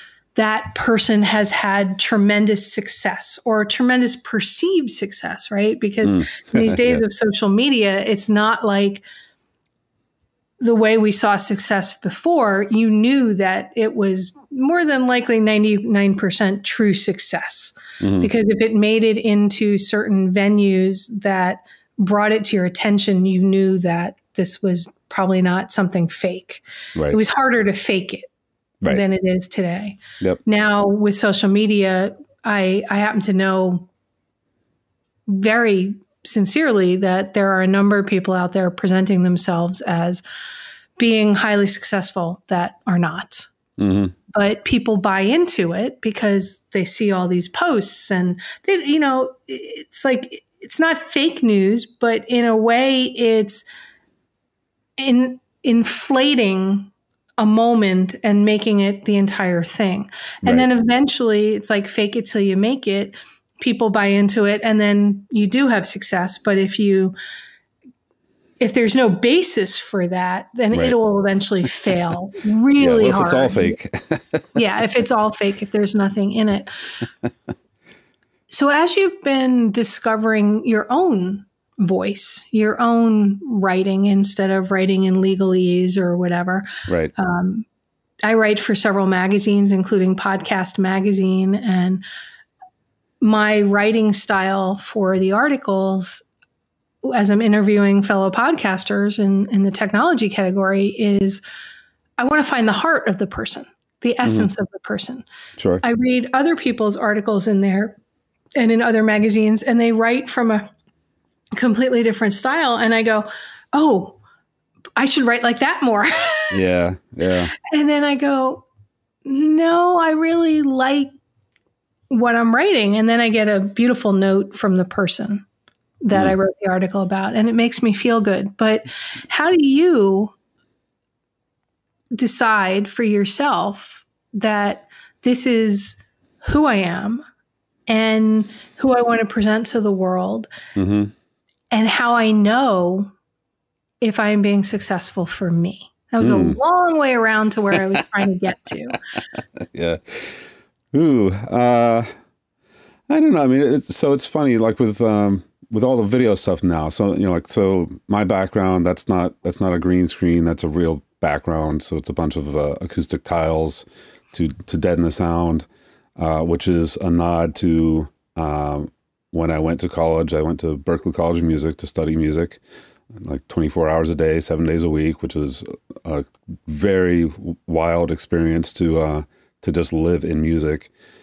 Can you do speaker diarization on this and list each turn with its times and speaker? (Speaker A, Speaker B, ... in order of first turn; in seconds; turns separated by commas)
Speaker A: 0.3-9.0, Speaker B: 6.0-7.0, Speaker A: 10.6-28.3, Speaker B: 18.0-18.3, Speaker A: 28.9-33.9, Speaker A: 35.3-40.2, Speaker A: 41.0-43.5, Speaker B: 43.8-44.1, Speaker A: 44.3-53.6, Speaker A: 55.0-67.1, Speaker A: 68.6-73.8, Speaker B: 72.8-74.4, Speaker A: 74.5-76.7, Speaker A: 78.5-87.7, Speaker A: 88.2-92.0, Speaker A: 93.2-96.2, Speaker A: 97.0-101.4, Speaker A: 102.2-105.2, Speaker B: 104.2-104.5, Speaker B: 105.6-105.8, Speaker A: 105.8-108.0, Speaker A: 108.6-110.7, Speaker A: 111.5-114.2, Speaker A: 115.0-116.6, Speaker B: 116.5-117.5, Speaker A: 117.7-118.6, Speaker A: 119.2-121.1, Speaker A: 122.1-125.4, Speaker A: 126.0-130.3, Speaker A: 132.2-137.2, Speaker A: 137.9-140.5, Speaker B: 140.7-141.1, Speaker A: 141.7-143.1, Speaker A: 144.0-149.0, Speaker B: 146.2-146.6, Speaker B: 149.6-150.4, Speaker B: 150.9-152.1, Speaker B: 153.1-165.7, Speaker B: 166.2-172.6, Speaker B: 173.1-180.9